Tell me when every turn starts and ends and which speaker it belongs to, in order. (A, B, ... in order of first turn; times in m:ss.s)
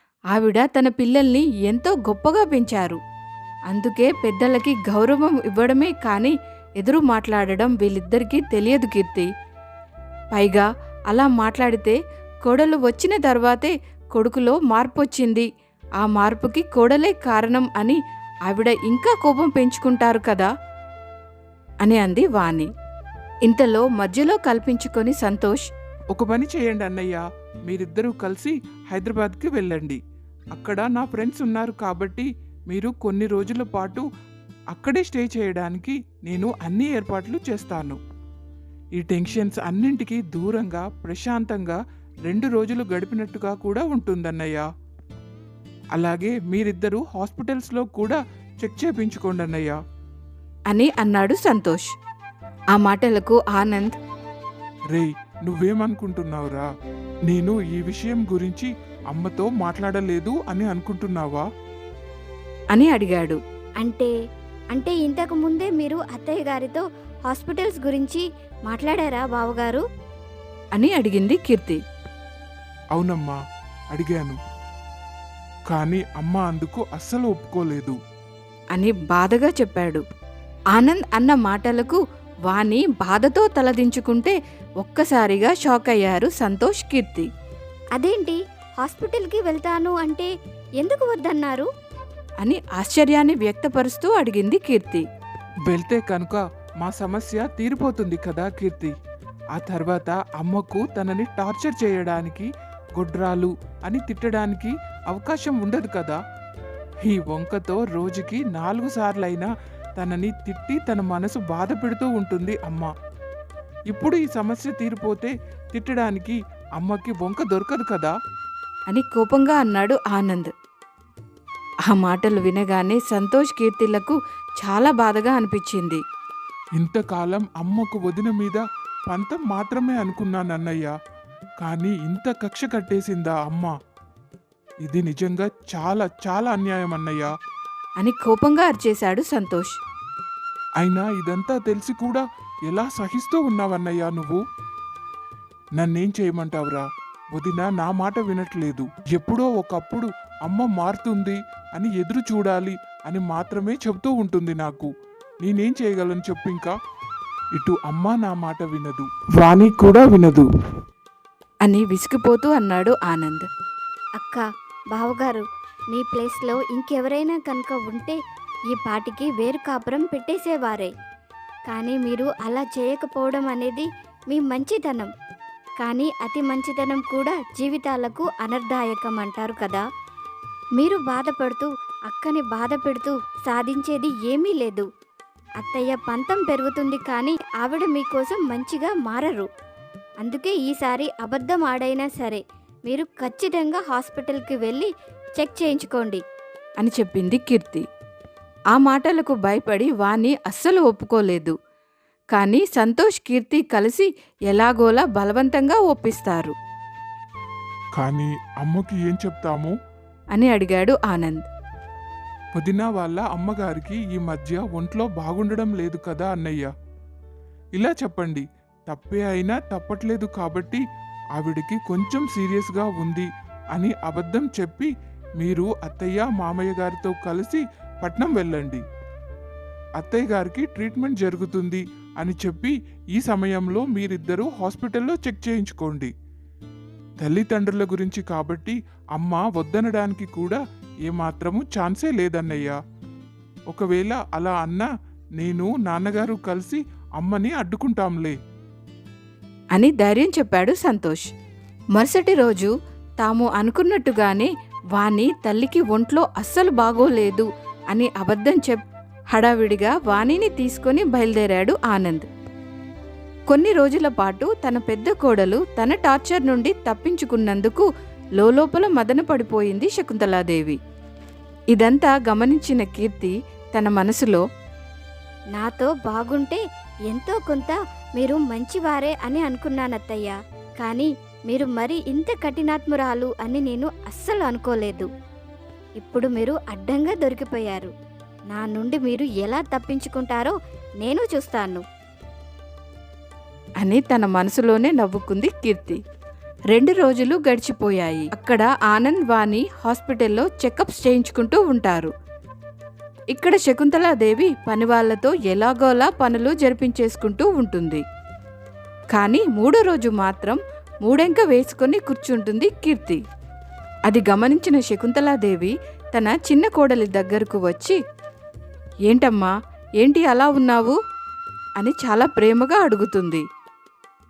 0:00.3-0:03.0 A
0:03.7-0:09.3 A
0:10.3-0:15.5 A
0:16.0-0:20.5 A
0:21.8-0:22.7 A
0:23.4-0:25.6 A
0:26.1-0:30.0 B
0:30.5-0:34.0 B
0:34.7-0:38.0 B
0:39.0-0:44.6 B
0:46.0-0:49.8 B
0:50.7-0:51.9 A
0:52.7-0:54.0 A
0:54.9-0:56.7 B
0:57.3-1:01.4 B
1:02.7-1:03.4 A
1:03.8-1:04.1 C
1:04.7-1:09.8 C
1:10.7-1:11.8 A
1:12.9-1:13.4 B
1:13.9-1:14.4 B
1:15.7-1:18.0 B
1:18.7-1:20.0 A
1:20.7-1:27.3 A
1:28.0-1:31.7 C
1:32.4-1:35.0 A
1:35.7-1:38.9 B
1:39.5-1:46.2 B
1:47.0-1:52.9 B
1:53.9-1:58.1 B
1:58.9-2:00.5 A
2:01.8-2:06.0 A
2:06.8-2:10.9 B
2:11.6-2:13.7 B
2:14.8-2:17.3 B
2:18.0-2:19.7 A
2:20.8-2:24.4 B
2:25.8-2:34.9 B
2:35.4-2:36.7 B
2:37.6-2:40.4 B
2:41.6-2:43.5 A
2:44.2-2:48.2 C
2:48.7-2:50.9 C
2:51.7-2:55.1 C
2:55.8-2:59.8 C
3:00.8-3:04.9 C
3:05.6-3:09.4 C
3:10.2-3:16.2 C
3:16.8-3:17.8 A
3:18.7-3:21.6 A
3:22.3-3:26.5 A
3:28.0-3:29.7 B
3:30.3-3:31.4 A
3:32.5-3:36.7 B
3:37.8-3:40.8 B
3:41.4-3:48.8 B
3:50.0-3:56.1 B
3:57.2-4:02.8 B
4:03.7-4:08.4 B
4:09.7-4:11.2 A
4:11.9-4:22.2 A
4:23.5-4:30.8 A
4:31.7-4:34.4 A
4:35.6-4:45.1 C
4:46.0-4:47.9 C
4:48.5-4:51.8 C
4:53.8-4:56.0 A
4:56.7-5:02.1 A
5:03.3-5:08.0 A
5:09.1-5:13.2 A
5:14.1-5:18.0 A
5:19.1-5:21.0 A
5:21.8-5:23.4 A